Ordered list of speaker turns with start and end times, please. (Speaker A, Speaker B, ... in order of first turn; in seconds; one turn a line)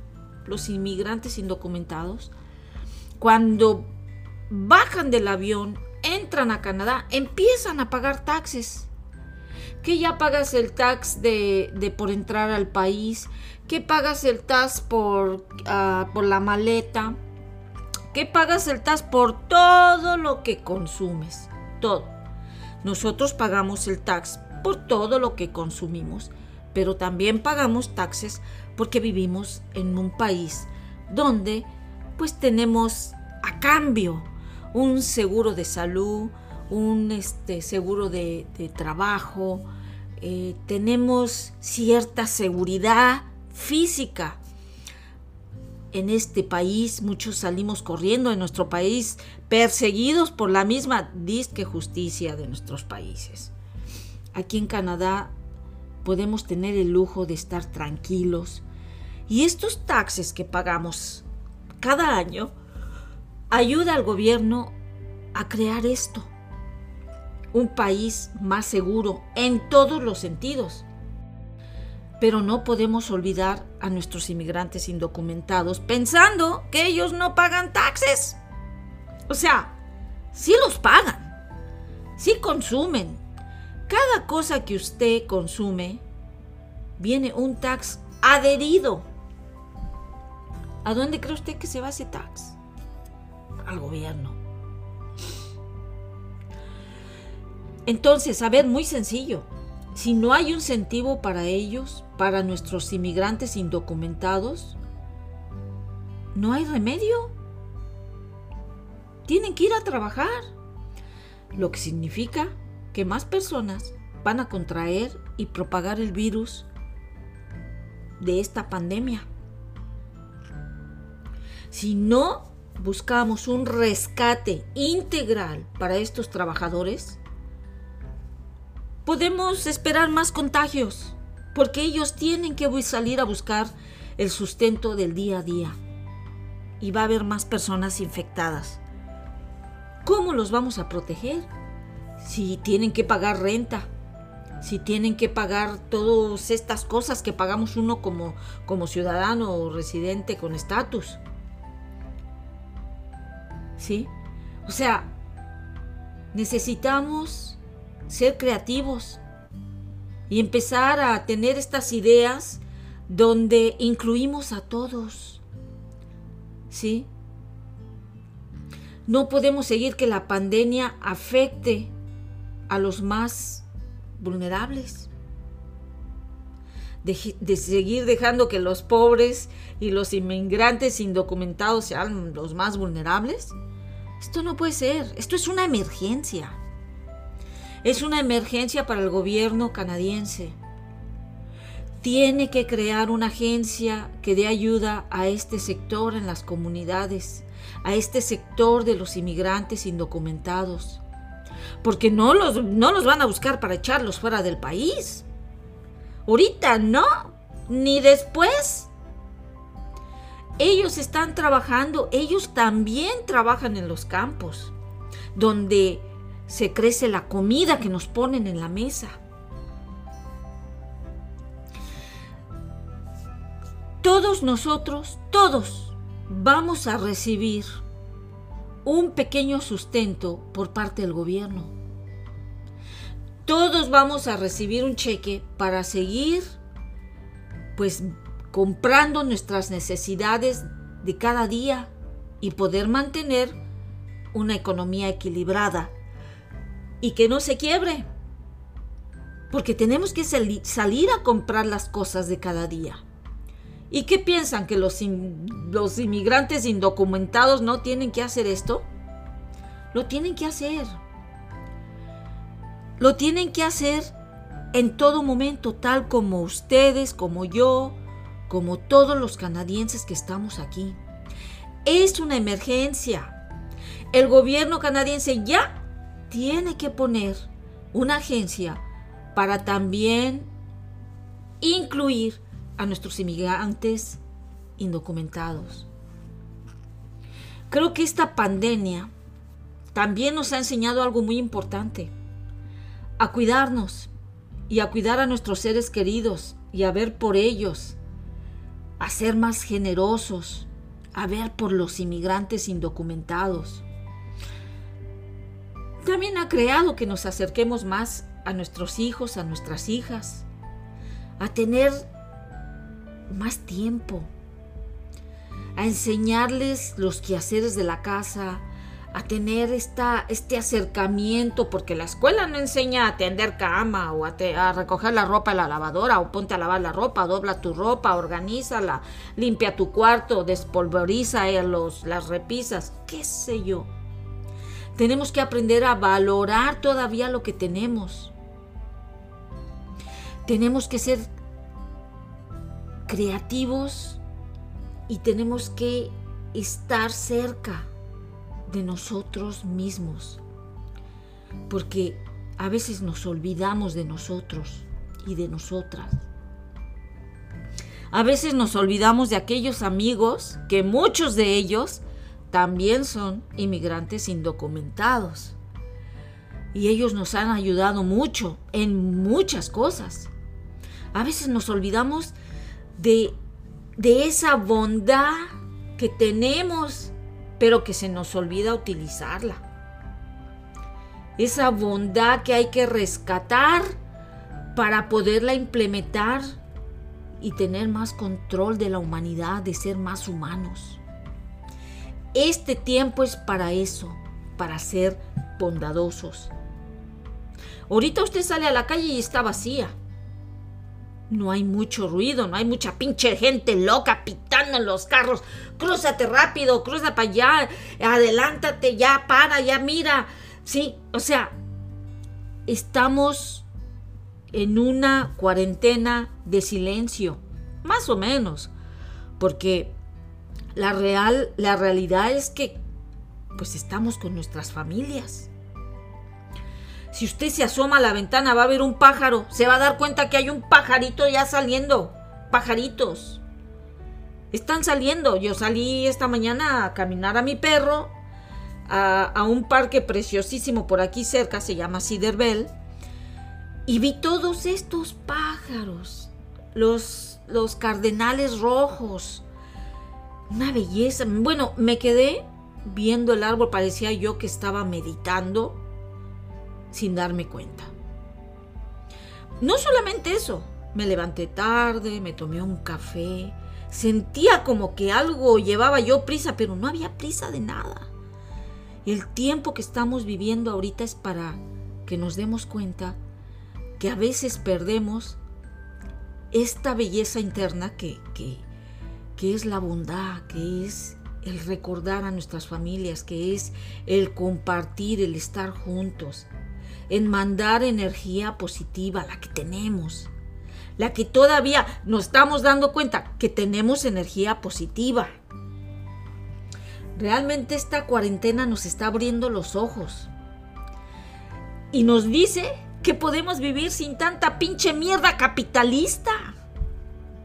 Speaker A: 0.4-2.3
Speaker A: 3.2-3.9
Speaker A: 4.5-8.9
Speaker A: 9.8-17.2
Speaker A: 18.1-22.1
Speaker A: 22.8-39.7
Speaker A: 40.2-44.4
Speaker A: 45.9-53.5
Speaker A: 54.3-55.3
Speaker A: 56.0-58.6
Speaker A: 59.3-61.3
Speaker A: 61.8-62.5
Speaker A: 63.5-64.8
Speaker A: 65.3-66.3
Speaker A: 67.5-70.9
Speaker A: 72.2-78.4
Speaker A: 79.3-79.7
Speaker A: 80.3-81.4
Speaker A: 82.2-83.2
Speaker A: 83.9-86.0
Speaker A: 87.0-89.1
Speaker A: 90.8-92.6
Speaker A: 93.7-94.4
Speaker A: 97.9-104.8
Speaker A: 106.3-107.3
Speaker A: 109.2-110.5
Speaker A: 111.5-116.7
Speaker A: 118.2-119.3
Speaker A: 121.7-127.2
Speaker A: 129.1-135.8
Speaker A: 136.8-138.8
Speaker A: 140.0-141.5
Speaker A: 142.2-143.9
Speaker A: 144.6-151.2
Speaker A: 153.8-154.1
Speaker A: 154.7-155.1
Speaker A: 156.3-159.2
Speaker A: 160.3-165.4
Speaker A: 166.7-167.1
Speaker A: 169.1-171.9
Speaker A: 172.7-173.7
Speaker A: 174.2-175.1
Speaker A: 177.0-183.6
Speaker A: 184.2-186.6
Speaker A: 187.8-190.6
Speaker A: 192.0-201.0
Speaker A: 201.8-205.3
Speaker A: 206.3-208.9
Speaker A: 210.6-214.7
Speaker A: 215.3-219.2
Speaker A: 224.0-227.7
Speaker A: 228.8-231.8
Speaker A: 233.4-236.6
Speaker A: 237.8-243.6
Speaker A: 244.3-245.9
Speaker A: 247.0-248.1
Speaker A: 249.5-253.0
Speaker A: 253.9-258.9
Speaker A: 259.9-260.9
Speaker A: 263.0-264.1
Speaker A: 264.7-268.0
Speaker A: 268.5-271.0
Speaker A: 271.9-273.4
Speaker A: 274.1-275.8
Speaker A: 276.3-278.8
Speaker A: 279.4-280.5
Speaker A: 281.6-284.2
Speaker A: 284.8-285.9
Speaker A: 287.7-289.1
Speaker A: 289.9-292.1
Speaker A: 293.2-294.1
Speaker A: 294.7-298.0
Speaker A: 299.0-303.9
Speaker A: 306.0-310.5
Speaker A: 311.4-312.1
Speaker A: 313.3-314.3
Speaker A: 315.8-333.9
Speaker A: 334.9-338.3
Speaker A: 340.4-341.3
Speaker A: 343.1-344.2
Speaker A: 345.1-347.9
Speaker A: 348.7-350.4
Speaker A: 351.7-356.2
Speaker A: 358.1-365.6
Speaker A: 366.7-370.3
Speaker A: 371.1-372.3
Speaker A: 373.0-373.4
Speaker A: 374.0-379.6
Speaker A: 381.4-383.9
Speaker A: 384.7-386.6
Speaker A: 387.4-391.0
Speaker A: 392.3-396.5
Speaker A: 397.9-399.9
Speaker A: 401.3-411.6
Speaker A: 412.7-413.7
Speaker A: 414.5-418.7
Speaker A: 419.4-419.9
Speaker A: 420.8-422.8
Speaker A: 423.6-425.5
Speaker A: 427.1-433.4
Speaker A: 434.5-438.1
Speaker A: 438.9-442.7
Speaker A: 443.9-449.4
Speaker A: 450.5-455.8
Speaker A: 456.9-457.9
Speaker A: 459.6-468.1
Speaker A: 469.1-473.2
Speaker A: 474.0-475.4
Speaker A: 476.5-478.6
Speaker A: 479.4-486.5
Speaker A: 487.1-490.3
Speaker A: 491.0-495.3
Speaker A: 497.1-500.3
Speaker A: 501.9-506.6